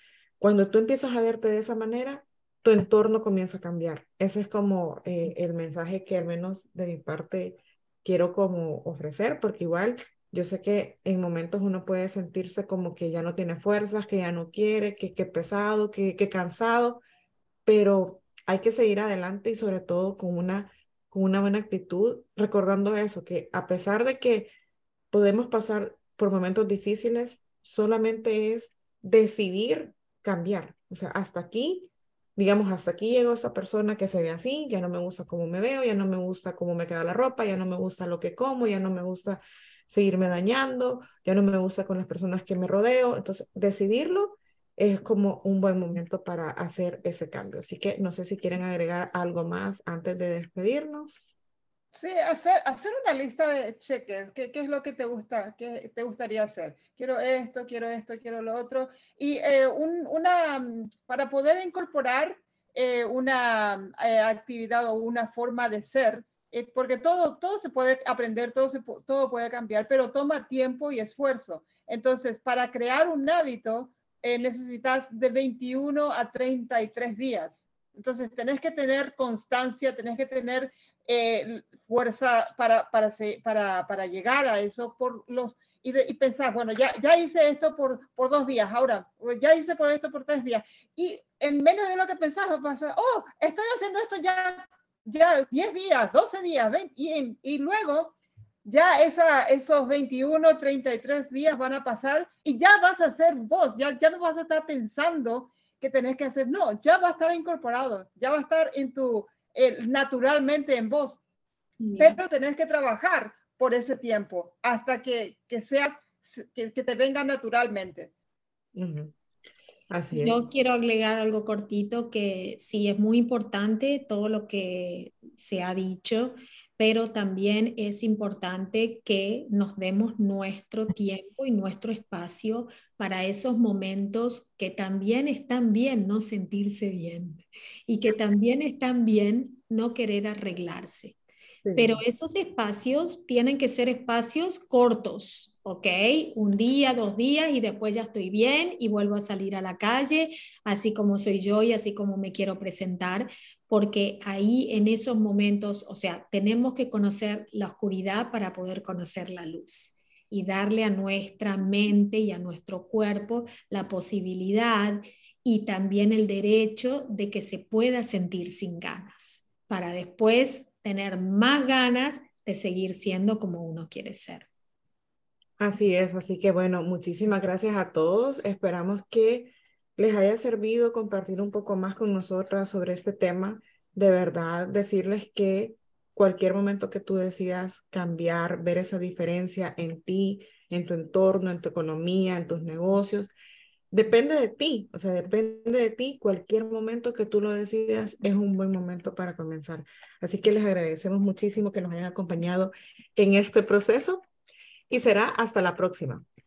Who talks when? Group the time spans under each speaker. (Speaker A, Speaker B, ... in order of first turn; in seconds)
Speaker A: 0.4-17.0, 17.7-24.5, 25.1-51.4, 118.8-119.1, 119.9-120.4, 141.6-142.0, 175.6-193.3, 193.9-204.2, 204.9-206.2
Speaker B: 51.9-98.1, 98.7-111.2, 112.0-118.1
Speaker C: 111.8-112.2, 120.1-141.2, 141.8-174.5